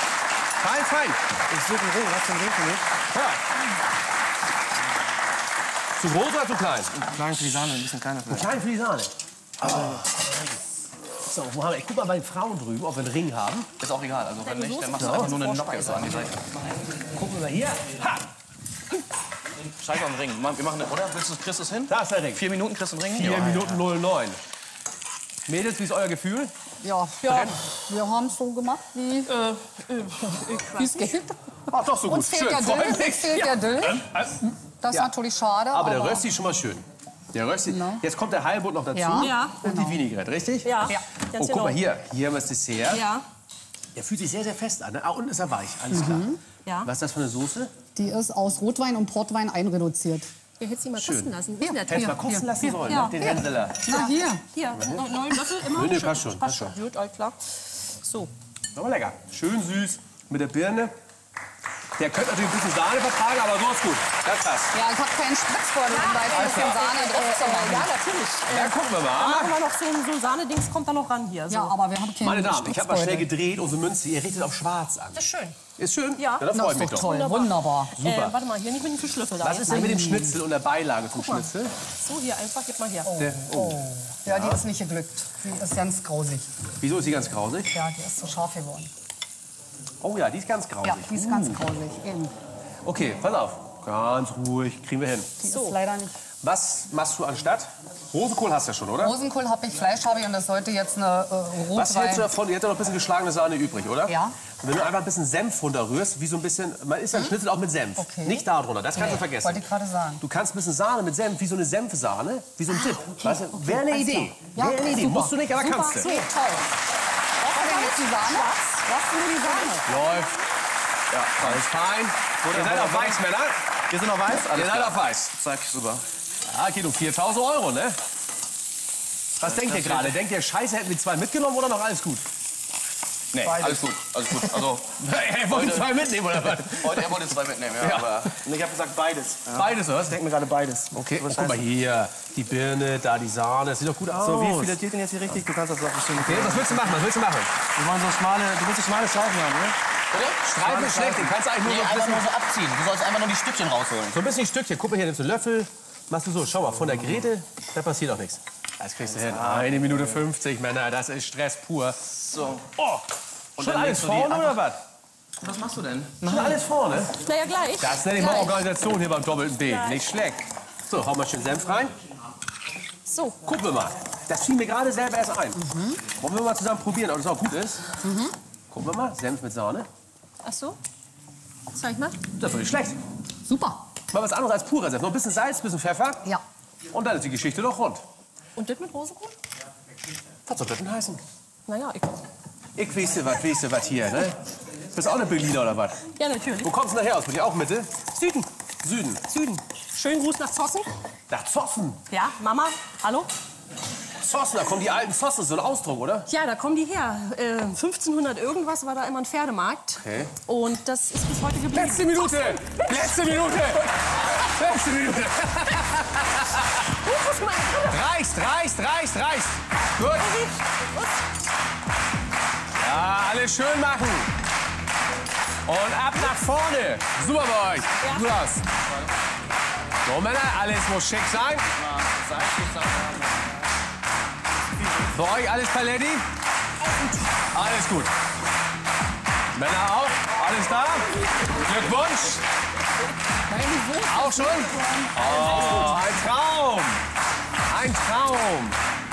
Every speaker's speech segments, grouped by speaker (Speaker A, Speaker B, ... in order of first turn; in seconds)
Speaker A: 0.6-1.2, 3.1-3.4, 6.0-7.0, 8.3-9.1, 9.7-10.0, 11.3-13.7, 15.0-15.4, 17.1-18.2, 21.9-22.4, 23.1-24.4, 25.5-26.5, 27.2-27.6, 31.7-35.1, 35.7-43.0, 44.0-47.7, 51.0-51.3, 51.9-54.1, 54.8-55.1, 55.7-56.7, 58.8-60.9, 62.0-64.7, 66.4-66.7, 68.5-69.5, 72.2-75.2, 75.8-77.1, 78.0-78.4, 79.4-81.7, 83.2-84.6, 86.8-87.7, 90.0-91.7, 92.8-95.4, 96.4-99.2, 101.7-109.7, 110.2-116.1, 119.9-120.3, 121.4-123.6, 124.3-125.3, 126.5-128.0, 129.4-132.2, 134.8-137.2, 137.8-138.3, 139.6-140.2, 140.9-144.8, 146.2-147.5, 150.4-152.3, 154.1-162.1, 162.7-164.8, 166.2-167.2, 167.8-171.9, 173.4-177.8, 178.7-179.9, 182.3-183.0, 184.1-186.3, 186.9-188.0, 190.5-191.2, 192.8-194.4, 194.9-196.1, 196.6-198.1, 198.8-199.2, 201.3-202.0, 204.2-206.3, 210.0-210.3, 211.7-216.9, 217.8-220.3, 222.8-224.3, 225.7-228.6, 230.1-231.7, 235.1-236.3, 237.5-238.1, 239.6-242.4, 244.1-247.0, 247.7-248.8
Speaker B: 1.5-2.9, 7.0-8.5, 9.6-10.1, 133.4-133.8, 138.4-141.7, 144.2-147.0, 147.8-149.8, 150.7-151.3
Speaker C: 13.8-16.6, 19.6-23.8, 121.1-121.7, 122.4-123.2, 123.9-126.0, 129.4-130.2, 133.3-138.4, 150.1-151.1, 151.6-154.2, 159.2-160.0, 162.3-162.6, 163.6-164.6, 165.4-166.6, 231.7-233.3
Speaker D: 14.4-16.3, 29.3-31.1, 39.2-39.6, 40.6-41.8, 42.9-43.3, 46.6-46.9, 50.6-53.2, 53.9-58.3, 65.9-71.8, 75.2-75.6, 76.2-80.1, 82.0-83.2, 95.4-95.8, 113.5-114.2, 115.7-116.3, 117.4-120.5, 167.1-168.6, 169.6-170.1, 173.1-173.4, 180.4-180.8, 181.7-182.2, 188.6-189.4, 191.7-192.2, 196.1-196.7, 198.2-198.5, 199.2-200.9, 202.1-203.3, 206.3-212.9, 217.0-218.0, 220.0-221.1, 228.0-228.4, 245.4-245.9
Speaker E: 26.8-29.3, 30.3-31.4, 32.0-34.1, 34.8-36.2, 37.7-38.0, 38.9-40.0, 45.9-46.4, 48.0-50.3, 51.6-54.4, 64.7-67.9, 71.5-73.3, 76.5-77.9, 79.7-80.4, 83.1-86.5, 87.7-88.9, 90.8-92.3, 95.4-96.2, 99.0-102.3, 104.1-104.4, 108.0-110.2, 113.2-116.7, 117.4-119.9, 175.6-176.0, 178.0-178.4, 183.5-183.8, 243.5-245.3